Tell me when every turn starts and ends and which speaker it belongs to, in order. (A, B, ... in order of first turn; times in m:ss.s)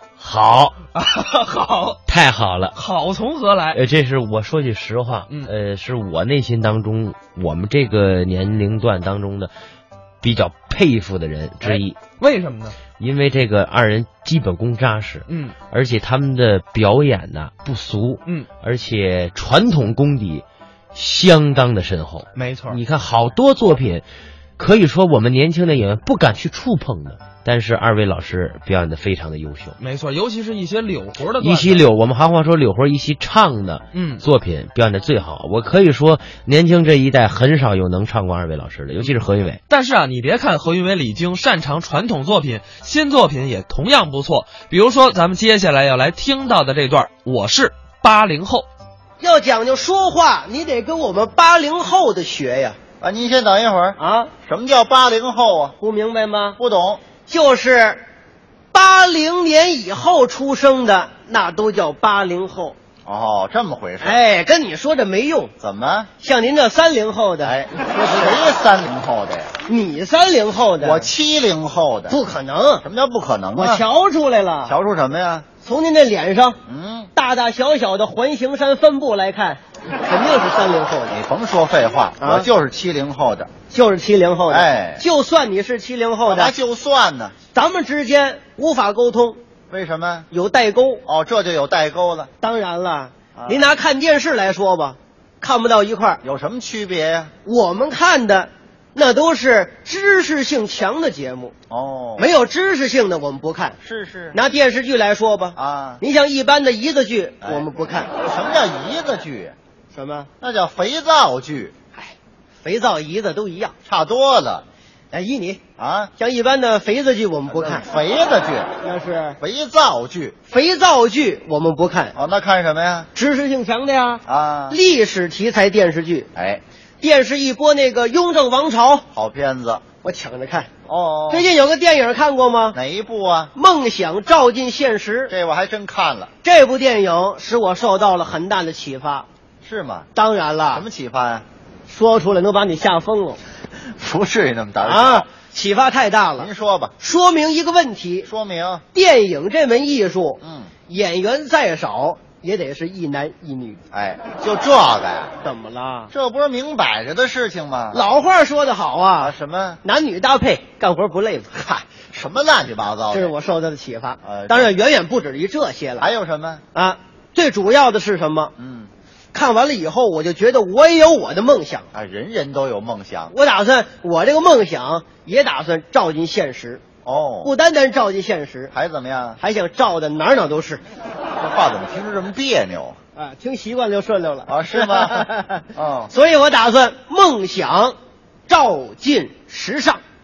0:00.2-0:00.8 A
0:00.9-0:02.0 B
0:02.1-0:02.8 A
0:02.7-0:03.8 B
0:03.7-0:09.5 A
0:10.2-0:12.0 A
0:11.6-0:12.8 B
0:13.0-0:24.0 A
0:15.3-0:15.6 B
0:22.4-0:22.8 B
0:24.6-0:29.8 A
0:29.8-0:31.9 B
0:31.4-0:39.6 A
0:33.9-0:34.2 B
0:39.7-0:48.7 B
0:49.2-0:52.8 C
0:53.0-0:55.8 D
0:54.0-0:54.3 C
0:55.8-0:56.6 C
0:56.6-0:57.0 D
0:57.3-0:58.0 C
0:58.7-1:02.8 C
1:03.0-1:04.2 D
1:04.0-1:05.5 C
1:05.6-1:06.1 D
1:06.2-1:07.6 C
1:07.4-1:09.5 D
1:08.1-1:08.4 C
1:09.6-1:11.1 C
1:10.8-1:12.2 D
1:12.1-1:12.8 C
1:12.8-1:13.8 D
1:13.6-1:14.8 C
1:14.7-1:15.5 D
1:15.6-1:16.6 C
1:16.7-1:17.1 D
1:17.1-1:21.2 C
1:21.1-1:23.5 D
1:22.2-1:22.5 C
1:23.7-1:26.5 C
1:24.5-1:25.0 D
1:26.3-1:27.4 D
1:27.5-1:29.4 C
1:29.7-1:30.3 D
1:30.3-1:31.0 C
1:31.1-1:32.3 D
1:32.4-1:36.2 C
1:33.4-1:33.7 D
1:36.2-1:37.3 D
1:37.4-1:41.5 C
1:41.7-1:42.3 D
1:42.2-1:43.8 C
1:43.8-1:44.4 D
1:44.3-1:48.1 C
1:45.6-1:46.0 D
1:47.4-1:49.6 D
1:49.9-1:50.3 C
1:50.4-1:51.7 D
1:52.0-1:53.8 C
1:53.8-1:54.7 D
1:55.1-1:55.6 C
1:55.8-1:56.1 D
1:56.2-1:57.8 C
1:57.5-1:58.7 D
1:58.8-1:59.4 C
1:59.4-2:00.4 D
2:00.5-2:02.2 C
2:02.1-2:03.1 D
2:03.1-2:06.3 C
2:04.2-2:04.8 D
2:06.4-2:06.6 D
2:07.0-2:09.1 C
2:09.1-2:09.8 D
2:10.0-2:10.7 C
2:10.9-2:11.5 D
2:11.3-2:12.8 C
2:12.7-2:13.5 D
2:13.6-2:15.3 C
2:15.3-2:16.3 D
2:16.4-2:19.3 C
2:19.6-2:20.1 D
2:20.2-2:20.8 C
2:20.7-2:21.4 D
2:21.9-2:23.4 C
2:23.8-2:25.3 D
2:24.8-2:28.3 C
2:26.4-2:26.9 D
2:28.2-2:28.8 D
2:28.9-2:33.8 C
2:30.4-2:30.7 D
2:33.9-2:35.4 D
2:35.4-2:36.1 C
2:36.1-2:38.0 D
2:37.9-2:41.9 C
2:39.2-2:39.8 D
2:42.1-2:43.3 D
2:43.1-2:46.1 C
2:44.2-2:44.7 D
2:46.0-2:46.6 D
2:46.7-2:48.5 C
2:48.6-2:48.9 D
2:49.3-2:51.9 C
2:51.9-2:53.4 D
2:53.3-2:56.8 C
2:57.0-2:57.5 D
2:57.4-2:58.7 C
2:58.7-2:59.4 D
2:59.4-3:00.8 C
3:01.3-3:03.0 D
3:03.2-3:05.5 C
3:04.5-3:06.1 D
3:06.1-3:08.0 C
3:08.5-3:10.0 C